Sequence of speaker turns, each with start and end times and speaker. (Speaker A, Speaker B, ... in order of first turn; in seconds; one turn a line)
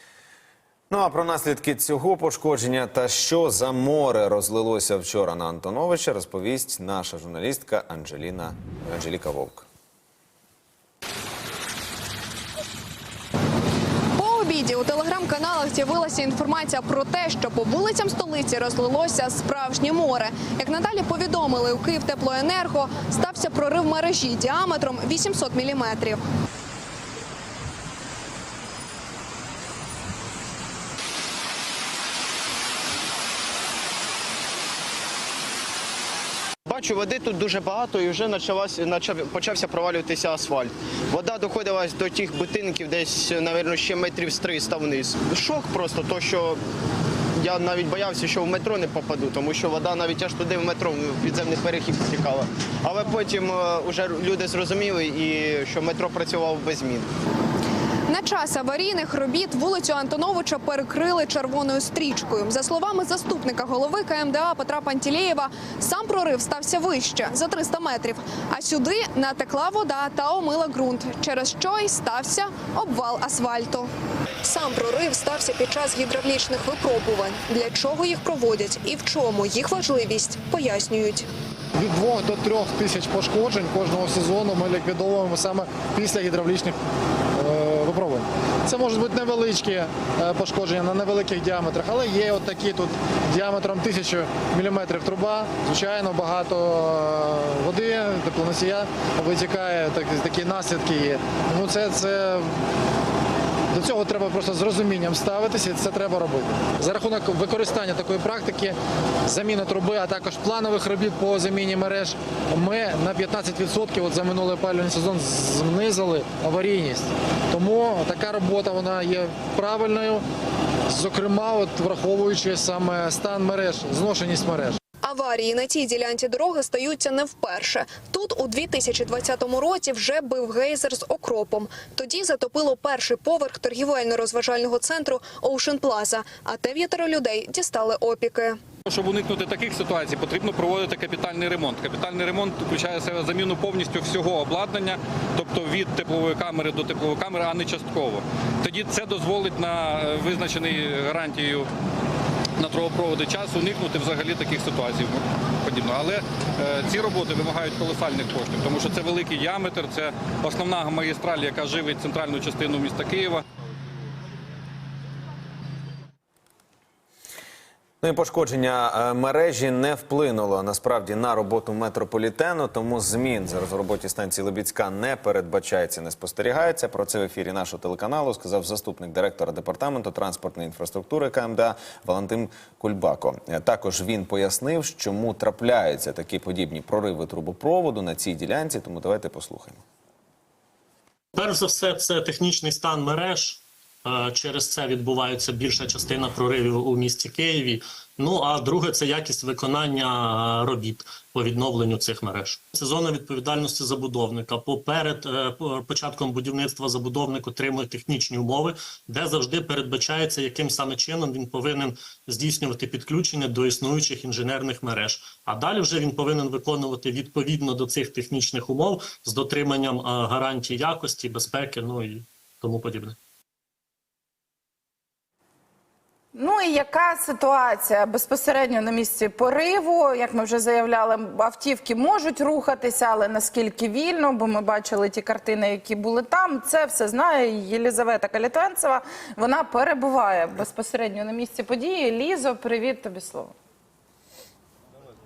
Speaker A: 0.9-9.7
Speaker B: 14.2-26.2
Speaker C: 36.7-46.6
Speaker C: 47.4-57.1
Speaker B: 58.1-73.9
Speaker B: 74.4-81.3
Speaker D: 81.8-86.8
Speaker D: 87.3-102.5
Speaker D: 103.7-120.2
Speaker D: 120.9-124.8
Speaker B: 125.0-138.6
Speaker E: 138.8-151.7
Speaker E: 152.6-163.4
Speaker A: 168.0-189.8
Speaker F: 191.3-223.2
Speaker G: 226.3-243.5